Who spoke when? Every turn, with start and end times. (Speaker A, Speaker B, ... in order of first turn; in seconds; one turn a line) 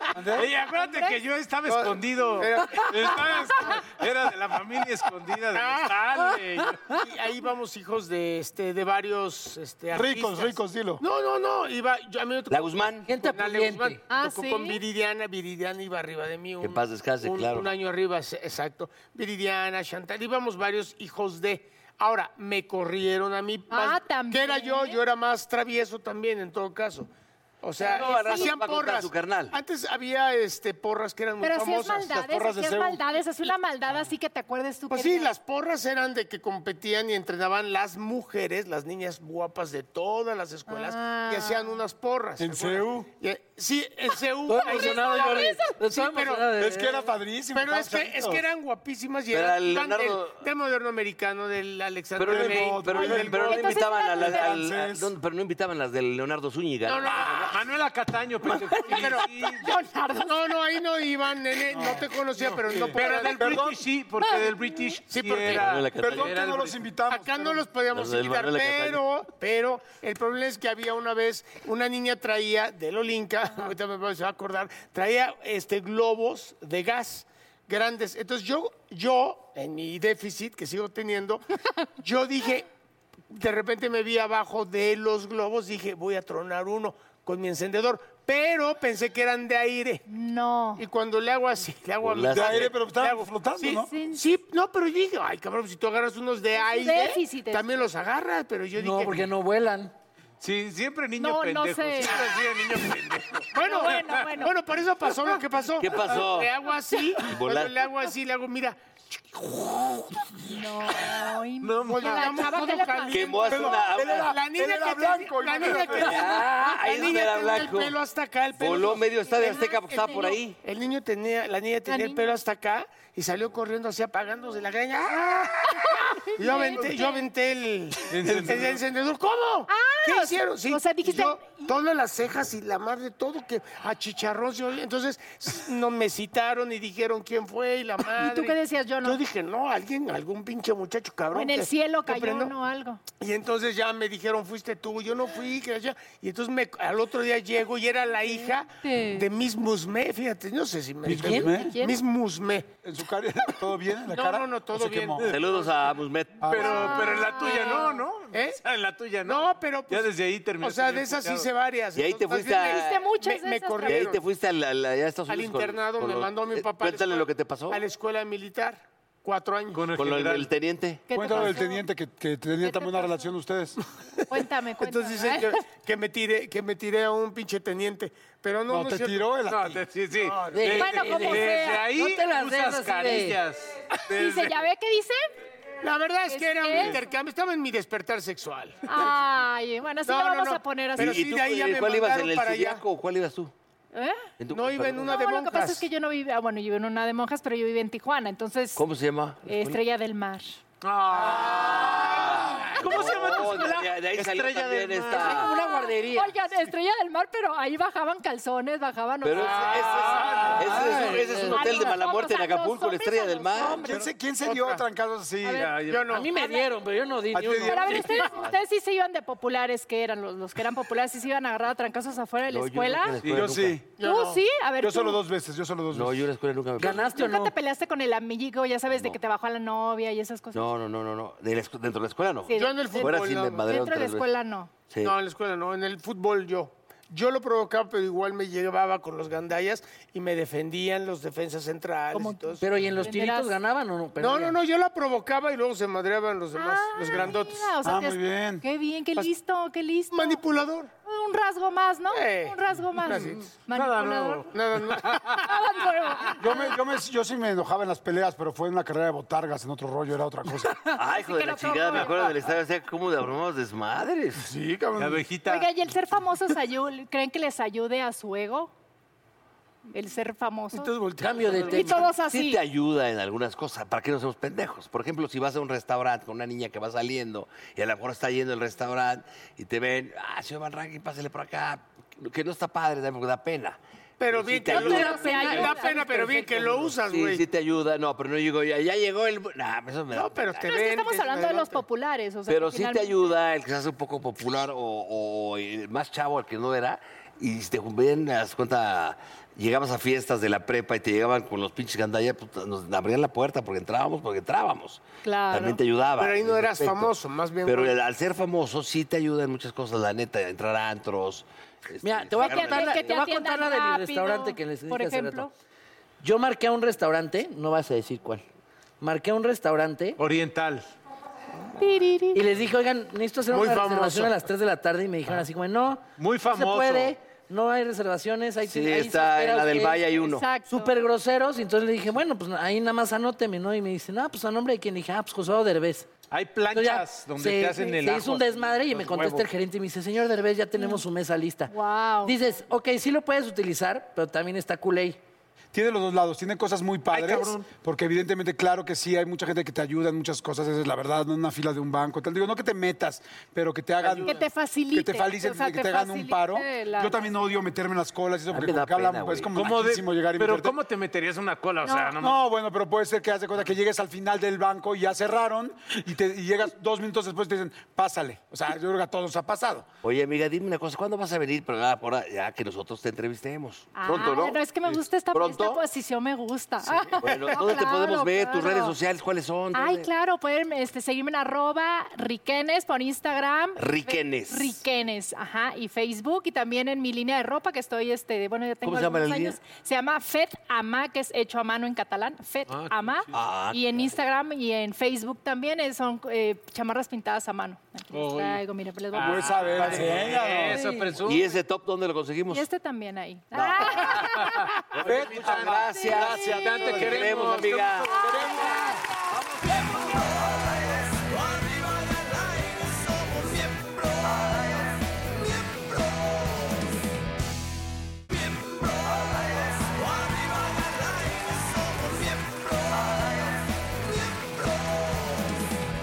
Speaker A: 0.1-0.5
Speaker B: 0.3-7.0
Speaker C: 0.7-1.2
Speaker D: 1.7-3.2
Speaker D: 5.5-6.1
Speaker D: 6.9-27.1
Speaker A: 9.9-11.0
Speaker E: 12.5-13.1
Speaker F: 13.1-14.0
Speaker C: 14.1-14.8
Speaker E: 16.6-17.7
Speaker C: 23.7-25.0
Speaker D: 27.6-32.1
Speaker C: 27.8-28.5
Speaker E: 27.8-29.6
Speaker C: 31.4-35.3
Speaker A: 32.0-33.0
Speaker D: 34.9-46.5
Speaker C: 40.7-41.8
Speaker A: 42.4-43.1
Speaker F: 44.5-47.1
Speaker C: 44.6-45.8
Speaker A: 46.5-48.5
Speaker D: 47.5-53.2
Speaker E: 49.3-50.4
Speaker E: 52.2-57.6
Speaker A: 52.2-55.1
Speaker C: 52.9-54.5
Speaker D: 56.9-57.5
Speaker B: 57.3-59.7
Speaker D: 58.9-59.3
Speaker C: 58.9-60.5
Speaker D: 60.2-63.6
Speaker A: 61.7-63.8
Speaker B: 63.0-66.8
Speaker C: 63.0-63.3
Speaker C: 64.2-64.9
Speaker D: 65.1-65.7
Speaker E: 65.4-66.4
Speaker A: 66.0-67.7
Speaker D: 67.1-81.5
Speaker E: 67.9-69.0
Speaker D: 82.0-82.7
Speaker D: 83.3-90.0
Speaker C: 90.1-90.8
Speaker D: 90.8-99.3
Speaker E: 92.0-92.8
Speaker A: 92.3-93.9
Speaker C: 93.7-94.2
Speaker C: 96.5-97.7
Speaker F: 98.8-99.9
Speaker B: 100.4-104.3
Speaker C: 101.2-102.2
Speaker D: 103.5-110.0
Speaker C: 103.6-104.5
Speaker E: 105.8-106.6
Speaker E: 107.2-107.8
Speaker C: 110.5-113.4
Speaker B: 111.6-112.6
Speaker D: 111.9-119.1
Speaker E: 113.1-114.4
Speaker A: 113.4-116.3
Speaker E: 115.9-118.0
Speaker E: 118.6-120.6
Speaker C: 119.2-120.4
Speaker D: 120.6-142.5
Speaker C: 121.9-122.3
Speaker C: 125.7-127.3
Speaker B: 128.1-128.8
Speaker A: 128.2-128.6
Speaker C: 129.7-131.8
Speaker C: 138.1-139.2
Speaker C: 141.3-143.0
Speaker D: 143.2-152.7
Speaker C: 148.3-149.3
Speaker F: 151.1-151.5
Speaker A: 151.1-151.8
Speaker C: 151.2-152.0
Speaker A: 152.8-155.3
Speaker D: 154.1-155.3
Speaker E: 155.2-156.6
Speaker A: 156.4-156.9
Speaker B: 156.4-161.5
Speaker C: 156.6-157.9
Speaker D: 158.3-158.6
Speaker D: 159.2-160.1
Speaker D: 160.6-164.2
Speaker E: 161.9-163.1
Speaker C: 162.6-164.0
Speaker E: 163.8-167.8
Speaker D: 165.3-169.9
Speaker B: 169.7-170.5
Speaker E: 169.9-171.0
Speaker C: 171.1-171.8
Speaker A: 171.1-173.8
Speaker C: 172.6-173.3
Speaker C: 174.3-175.6
Speaker D: 174.8-179.3
Speaker A: 178.7-179.8
Speaker B: 179.5-184.6
Speaker D: 180.2-180.9
Speaker F: 180.5-183.4
Speaker C: 180.7-181.9
Speaker C: 184.1-185.2
Speaker D: 185.8-189.1
Speaker C: 186.3-187.1
Speaker C: 188.9-191.2
Speaker D: 190.1-192.8
Speaker E: 191.0-193.5
Speaker C: 193.9-194.3
Speaker E: 194.4-195.1
Speaker D: 194.5-195.9
Speaker C: 195.0-198.8
Speaker E: 198.8-199.8
Speaker C: 199.4-200.6
Speaker B: 200.8-205.5
Speaker E: 201.7-205.6
Speaker F: 205.2-206.3
Speaker C: 205.2-214.0
Speaker E: 209.2-213.9
Speaker B: 209.5-211.2
Speaker F: 210.5-211.9
Speaker A: 213.8-215.7
Speaker D: 214.4-214.8
Speaker C: 215.4-216.7
Speaker F: 215.5-218.5
Speaker D: 215.8-216.3
Speaker A: 217.3-218.1
Speaker C: 217.7-223.2
Speaker E: 222.5-223.8
Speaker A: 223.2-223.8
Speaker D: 224.0-224.4
Speaker C: 224.0-225.2
Speaker A: 224.8-226.3
Speaker E: 225.9-227.2
Speaker F: 226.8-227.5
Speaker C: 227.1-230.7
Speaker E: 228.9-229.2
Speaker E: 230.5-234.3
Speaker C: 232.5-234.7
Speaker D: 232.6-233.7
Speaker E: 234.9-235.2
Speaker D: 235.0-242.7
Speaker C: 242.1-243.6
Speaker F: 242.6-244.6
Speaker D: 244.2-247.7
Speaker C: 246.6-250.4
Speaker A: 247.8-248.6
Speaker D: 250.1-250.9
Speaker C: 251.1-254.5
Speaker D: 252.1-253.4
Speaker B: 253.7-255.4
Speaker D: 254.5-255.5
Speaker C: 255.4-256.7
Speaker A: 256.4-260.8
Speaker E: 260.9-264.5
Speaker C: 261.1-262.3
Speaker A: 264.4-265.2
Speaker B: 265.0-265.7
Speaker C: 265.5-268.7
Speaker C: 269.9-270.9
Speaker F: 271.2-272.1
Speaker B: 271.2-271.8
Speaker C: 271.7-272.6
Speaker E: 272.1-283.8
Speaker D: 284.2-287.4
Speaker E: 284.3-285.2
Speaker C: 284.7-286.1
Speaker F: 284.7-287.0
Speaker E: 287.1-290.8
Speaker D: 290.1-291.8
Speaker C: 290.6-293.4
Speaker E: 292.5-313.2
Speaker C: 305.2-305.8
Speaker D: 306.2-307.9
Speaker F: 312.0-315.5
Speaker C: 312.4-315.5
Speaker F: 316.2-318.4
Speaker F: 319.0-320.2
Speaker B: 320.2-320.9
Speaker C: 321.8-322.4
Speaker F: 322.3-330.1
Speaker D: 323.5-324.4
Speaker B: 326.2-327.2
Speaker E: 328.6-330.5
Speaker C: 330.2-330.9
Speaker F: 330.7-336.1
Speaker B: 336.3-339.5
Speaker F: 336.7-341.7
Speaker C: 340.8-341.0
Speaker C: 341.7-342.4
Speaker F: 342.2-345.2
Speaker A: 345.7-354.4
Speaker B: 347.1-347.7
Speaker C: 354.3-357.2
Speaker A: 354.9-360.8
Speaker E: 358.5-359.6
Speaker B: 359.5-362.4
Speaker C: 361.8-362.1
Speaker A: 362.2-369.9
Speaker E: 370.0-374.6
Speaker C: 373.9-378.9
Speaker E: 375.3-375.8
Speaker E: 377.2-380.1
Speaker C: 379.7-400.1
Speaker E: 383.8-384.8
Speaker E: 388.8-389.6
Speaker B: 392.8-393.3
Speaker E: 393.3-394.1
Speaker B: 398.1-398.6
Speaker B: 399.1-401.4
Speaker A: 399.2-400.9
Speaker E: 401.2-402.6
Speaker C: 402.5-404.7
Speaker E: 403.5-404.3
Speaker B: 404.2-408.5
Speaker E: 404.9-408.3
Speaker A: 405.0-407.3
Speaker C: 405.9-406.8
Speaker C: 408.1-409.0
Speaker A: 408.2-408.9
Speaker E: 409.3-410.1
Speaker G: 410.1-416.9
Speaker G: 418.4-425.5